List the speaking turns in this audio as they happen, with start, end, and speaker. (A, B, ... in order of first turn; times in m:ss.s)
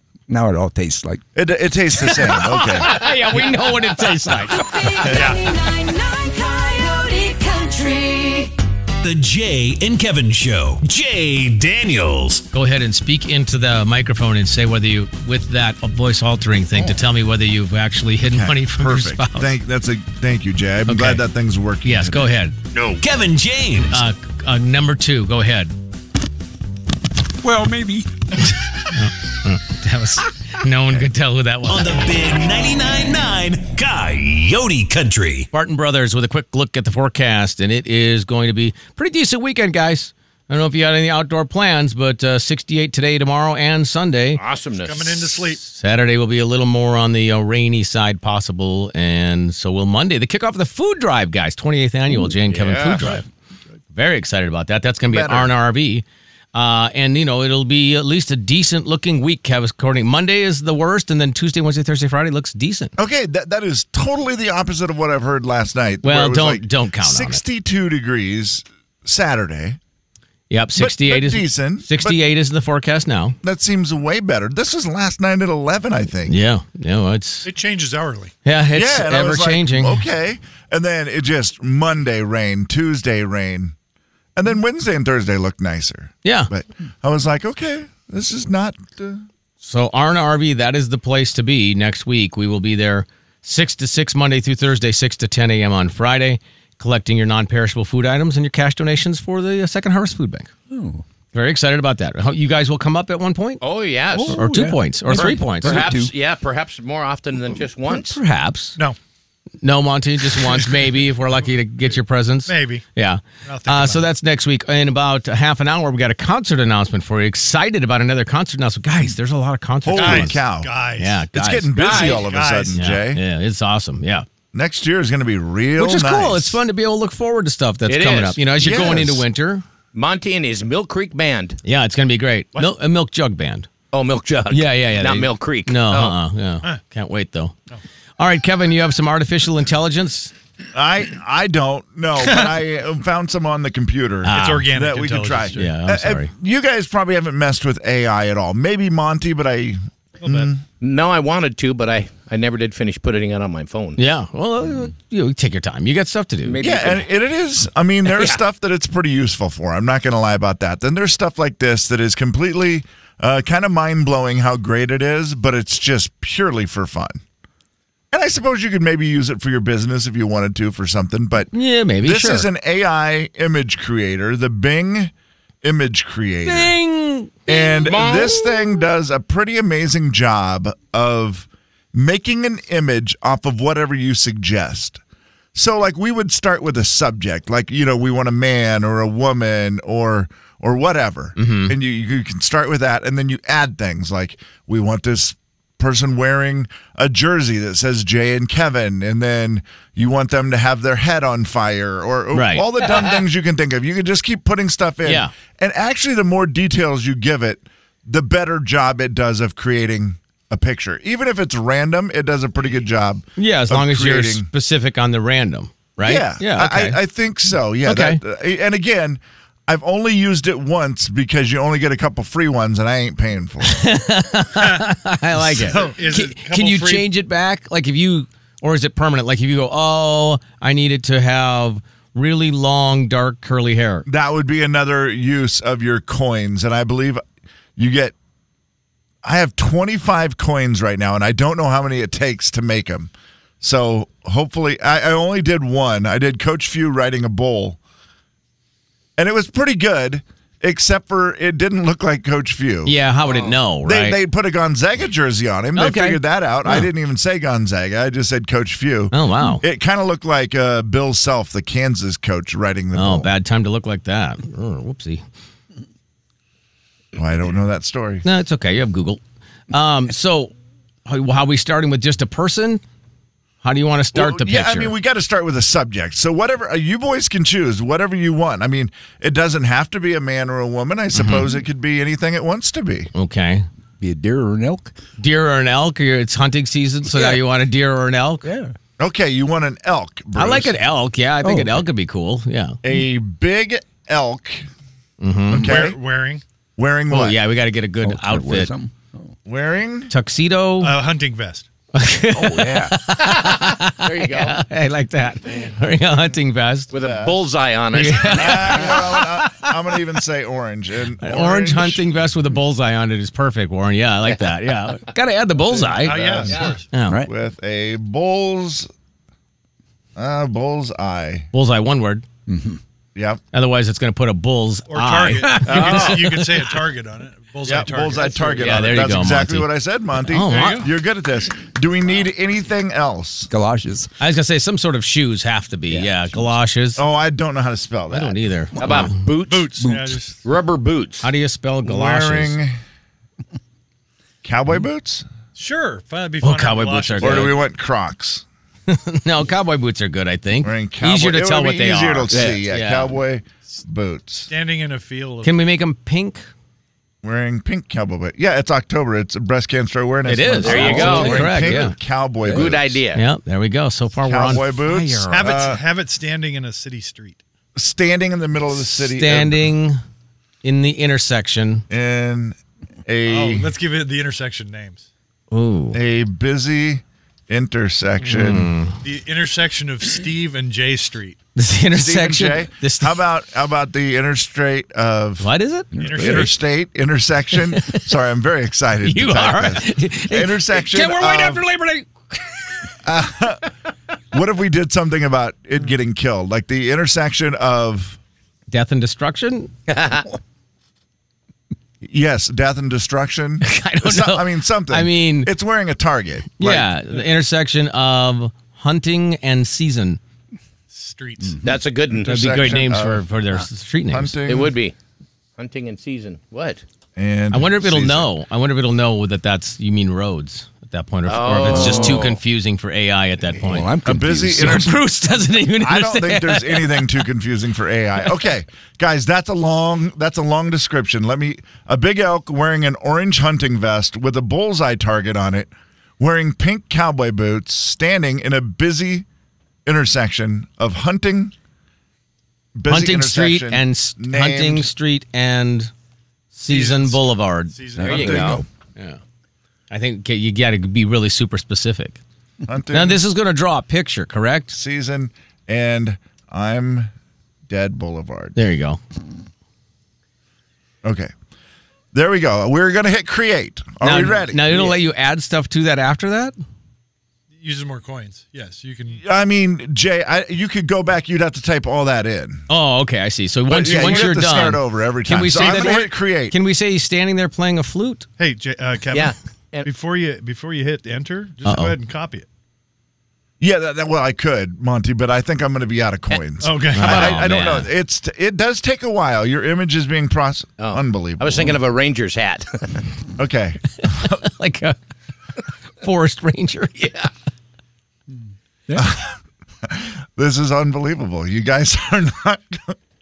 0:00.3-0:01.2 A
0:01.4-0:03.0 B
0:02.0-0:04.6 C
0:04.6-0:08.5 D
0:05.0-0:05.4 E
0:09.0-0:12.5 F
0:12.5-0:19.5 C
0:18.2-0:22.3 B
0:20.9-0:21.2 C
0:21.8-0:22.6 C
0:22.8-0:23.0 G
0:23.0-0:24.0 F
0:23.9-0:25.7 C
0:27.4-0:28.1 A
0:28.5-0:32.0 C
0:31.7-0:35.5 F
0:35.5-0:44.4 C
0:44.4-0:45.4 G
0:44.8-0:45.6 E
0:45.6-0:53.3 C
0:52.5-0:53.2 G
0:53.9-1:02.9 C
0:55.1-0:55.5 B
1:03.0-1:09.8 B
1:06.0-1:07.4 C
1:10.5-1:13.4 C
1:10.8-1:12.2 B
1:13.4-1:16.4 B
1:16.3-1:17.5 C
1:17.4-1:18.3 E
1:18.4-1:20.0 C
1:18.7-1:23.8 B
1:24.4-1:29.3 B
1:26.2-1:26.5 C
1:29.6-1:40.5 C
1:40.7-1:41.0 A
1:41.3-1:43.6 C
1:43.6-1:44.4 G
1:44.1-1:46.1 A
1:44.3-1:45.9 C
1:45.1-1:48.2 G
1:47.9-1:48.8 C
1:49.6-2:00.4 C
1:52.5-1:52.8 E
1:53.4-1:54.1 E
1:59.8-2:00.7 B
2:00.0-2:01.2 E
2:01.0-2:02.0 C
2:01.3-2:03.2 B
2:01.8-2:02.2 G
2:01.9-2:02.8 E
2:02.7-2:04.2 C
2:04.5-2:06.6 B
2:05.8-2:09.6 C
2:07.9-2:08.4 G
2:08.6-2:09.2 B
2:09.9-2:11.6 G
2:11.6-2:13.7 C
2:13.9-2:16.2 G
2:14.5-2:17.6 C
2:18.2-2:20.3 C
2:20.7-2:30.6 B
2:24.2-2:24.7 C
2:24.3-2:25.7 E
2:25.5-2:26.3 C
2:30.2-2:30.5 E
2:30.8-2:34.0 G
2:34.0-2:36.6 C
2:36.5-2:37.0 G
2:36.6-2:47.2 B
2:38.1-2:38.4 G
2:48.1-2:55.1 B
2:51.5-2:52.5 C
2:55.6-2:56.8 B
2:56.4-2:57.4 C
2:57.5-3:05.0 B
2:57.5-2:58.5 G
3:05.5-3:34.5 B
3:11.4-3:11.8 C
3:22.3-3:22.7 C
3:25.0-3:25.3 C
3:33.4-3:37.0 C
3:36.0-3:43.8 B
3:37.8-3:38.2 C
3:43.7-3:54.1 C
3:45.5-3:47.1 E
3:54.1-3:57.2 B
3:57.8-3:58.2 B
3:59.2-4:07.8 B
4:09.2-4:13.0 B
4:12.9-4:14.2 C
4:13.8-4:23.3 B
4:15.8-4:16.9 C
4:19.1-4:19.6 C
4:22.9-4:25.2 C
4:27.2-4:28.2 B
4:28.2-4:30.5 C
4:31.1-4:32.8 C
4:33.6-4:34.9 C
4:34.1-4:43.1 B
4:41.1-4:41.5 C
4:43.1-4:43.7 C
4:44.0-4:44.9 A
4:45.2-4:48.5 C
4:47.1-4:47.4 A
4:48.4-4:48.7 A
4:49.0-4:50.8 B
4:50.4-4:52.8 C
4:51.4-4:51.9 A
4:52.8-4:54.7 B
4:55.2-4:55.7 C
4:55.5-4:56.0 B
4:55.6-4:56.4 E
4:56.8-4:57.4 B
4:57.1-4:58.7 C
4:58.0-4:59.3 A
4:59.5-5:00.1 B
5:00.1-5:01.0 C
5:00.8-5:01.7 E
5:01.9-5:06.9 C
5:02.3-5:03.0 A
5:03.4-5:04.6 G
5:06.9-5:09.0 G
5:07.0-5:07.4 B
5:07.9-5:09.7 C
5:08.2-5:12.1 B
5:11.2-5:17.2 C
5:16.0-5:16.9 E
5:16.1-5:16.6 B
5:17.2-5:18.9 B
5:20.2-5:21.5 B
5:21.5-5:22.2 C
5:22.5-5:22.8 A
5:23.2-5:23.4 B
5:23.5-5:26.6 C
5:24.9-5:28.6 E
5:25.7-5:26.2 G
5:27.6-5:33.5 B
5:28.5-5:30.9 C
5:30.5-5:30.9 E
5:33.5-5:34.1 A
5:34.2-5:37.0 C
5:35.9-5:36.2 A
5:37.0-5:38.4 B
5:38.1-5:39.2 C
5:38.8-5:39.7 G
5:39.5-5:40.4 E
5:39.8-5:40.1 A
5:40.4-5:41.3 G
5:41.2-5:42.6 C
5:41.8-5:42.8 B
5:44.4-5:45.3 B
5:45.6-5:47.5 E
5:46.4-5:47.6 C
5:47.2-5:48.4 B
5:48.9-5:53.2 C
5:50.6-5:54.5 B
5:52.3-5:52.6 A
5:54.5-5:55.6 E
5:55.4-5:56.4 C
5:57.2-6:03.0 B
6:00.3-6:02.0 C
6:00.6-6:01.7 G
6:02.4-6:02.8 A
6:02.5-6:03.2 G
6:03.1-6:05.5 C
6:04.2-6:05.8 B
6:05.3-6:07.4 E
6:07.8-6:09.7 B
6:09.0-6:10.0 C
6:10.6-6:11.8 C
6:11.9-6:13.7 B
6:13.3-6:15.1 E
6:15.5-6:16.0 C
6:15.9-6:18.7 B
6:18.3-6:19.0 C
6:19.0-6:21.4 E
6:21.6-6:23.2 C
6:21.9-6:25.5 B
6:25.4-6:25.9 C
6:26.0-6:26.4 A
6:26.0-6:26.6 E
6:26.2-6:31.6 B
6:27.7-6:28.1 C
6:29.0-6:32.8 C
6:33.0-6:33.7 B
6:34.3-6:38.2 B
6:38.7-6:39.7 C
6:39.9-6:40.3 G
6:42.0-6:46.9 B
6:43.6-6:45.5 C
6:46.6-6:50.2 C
6:50.9-6:51.6 E
6:51.6-6:52.4 G
6:52.1-6:53.3 B
6:52.2-6:54.4 C
6:54.1-6:54.8 B
6:54.5-6:55.0 G
6:55.6-6:56.8 G
6:57.2-6:58.3 B
6:57.5-7:03.9 C
7:01.2-7:02.4 G
7:01.7-7:02.2 A
7:03.6-7:04.9 A
7:04.0-7:05.0 B
7:04.5-7:07.2 C
7:05.8-7:19.3 B
7:19.9-7:21.5 B
7:22.8-7:24.9 B
7:22.9-7:25.9 C
7:26.5-7:29.2 C
7:26.7-7:28.6 E
7:28.0-7:28.6 A
7:28.0-7:28.6 G
7:29.9-7:32.2 C
7:32.7-7:33.2 B
7:32.9-7:34.8 C
7:34.7-7:37.1 B
7:37.7-7:38.6 B
7:38.6-7:39.0 C
7:41.0-7:41.3 B
7:42.1-7:45.0 B
7:44.0-7:46.6 C
7:47.6-7:49.2 E
7:49.2-7:52.6 B
7:52.7-7:58.3 C
7:53.7-7:56.6 B
7:55.6-7:55.9 E
7:58.4-8:02.5 E
7:59.1-7:59.9 G
8:01.6-8:02.0 C
8:03.6-8:11.8 B
8:06.6-8:07.3 E
8:06.9-8:07.9 C
8:10.8-8:13.0 G
8:13.4-8:14.4 B
8:14.2-8:15.0 C
8:16.0-8:17.2 C
8:19.0-8:23.0 B